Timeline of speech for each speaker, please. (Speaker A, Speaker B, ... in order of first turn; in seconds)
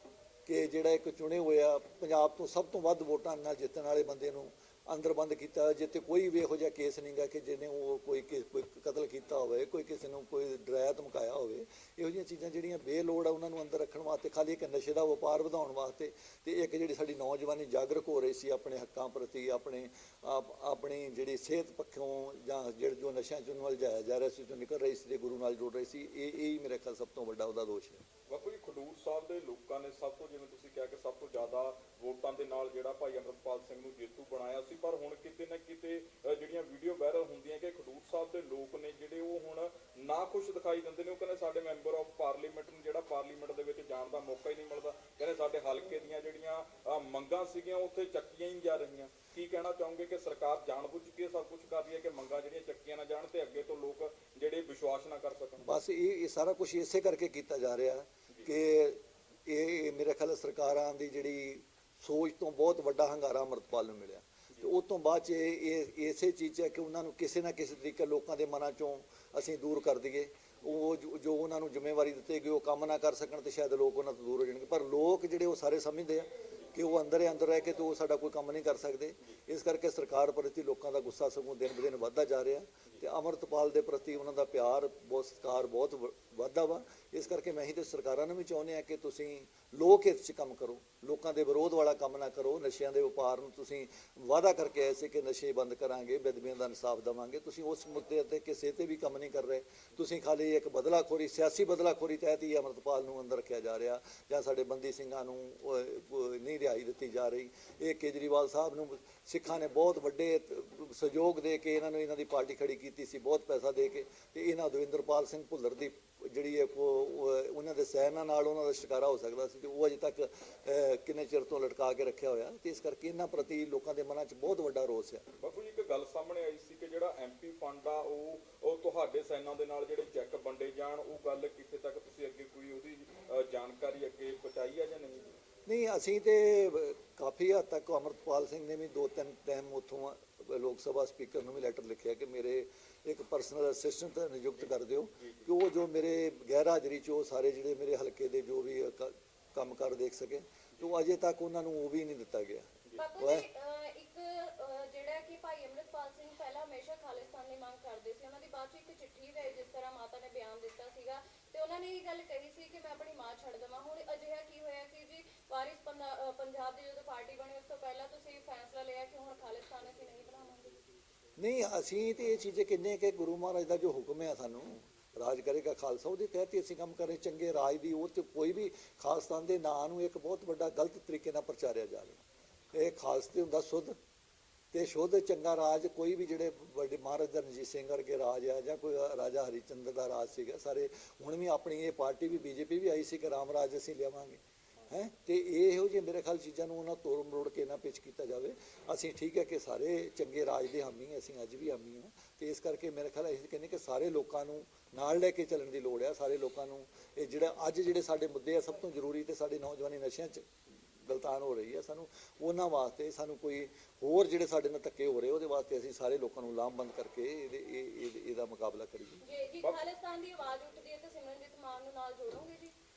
Speaker A: 0.5-28.0, 55.6-125.2, 135.7-153.5, 171.4-182.2, 182.7-184.0, 184.7-210.5, 211.0-219.2
Speaker B: 28.3-55.8, 125.4-135.3, 145.2-145.5
Speaker C: 152.9-170.7, 219.2-222.7